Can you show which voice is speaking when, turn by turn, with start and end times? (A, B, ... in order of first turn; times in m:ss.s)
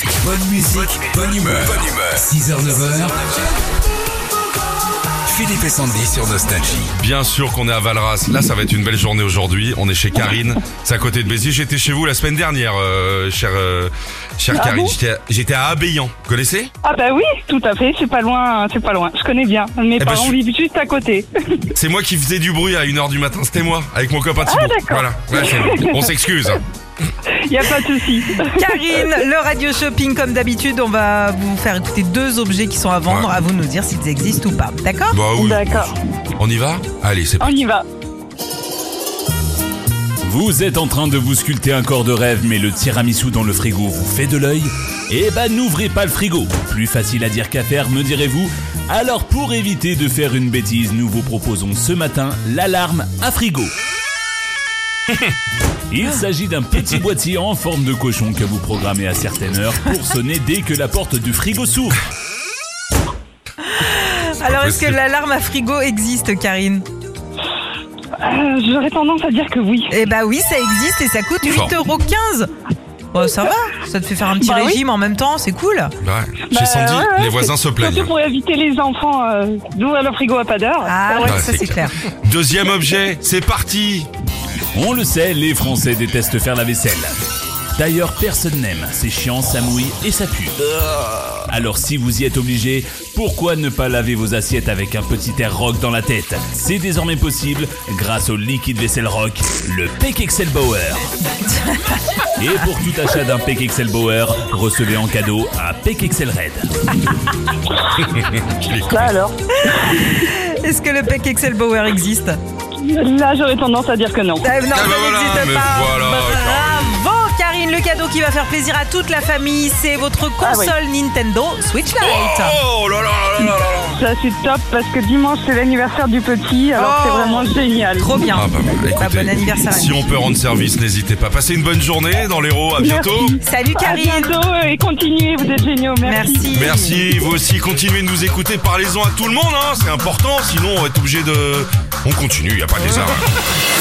0:00.1-0:03.3 A
0:05.2-0:06.9 A
0:07.0-0:16.7 B
0:14.5-0:14.9 C
0:16.8-0:21.7 C
0:20.0-0:20.4 B
0:21.7-0:26.6 B
0:24.4-0:26.0 C
0:27.3-0:29.1 C
0:28.6-0:35.2 D
0:35.1-0:37.6 B
0:35.3-0:35.9 C
0:37.4-0:37.8 C
0:40.2-0:53.7 E
0:55.9-1:02.0 E
1:03.7-1:06.8 D
1:04.4-1:05.0 B
1:08.2-1:10.0 C
1:09.9-1:12.5 D
1:13.1-1:15.9 D
1:14.4-1:14.8 C
1:16.0-1:18.1 B
1:16.5-1:21.5 C
1:20.8-1:21.9 D
1:21.3-1:24.1 B
1:24.7-1:27.1 E
1:27.8-1:41.1 E
1:41.5-1:42.0 D
1:42.4-1:46.7 E
1:47.9-1:49.2 B
1:48.9-1:50.1 C
1:49.7-1:52.4 D
1:52.8-1:54.6 C
1:54.4-2:02.6 D
1:54.7-1:56.9 B
2:00.4-2:00.8 C
2:02.0-2:04.0 B
2:03.9-2:08.3 C
2:06.8-2:07.4 D
2:08.0-2:08.4 D
2:08.3-2:13.4 B
2:09.0-2:10.1 D
2:12.8-2:16.8 C
2:13.4-2:14.4 D
2:16.0-2:17.0 D
2:16.5-2:23.3 B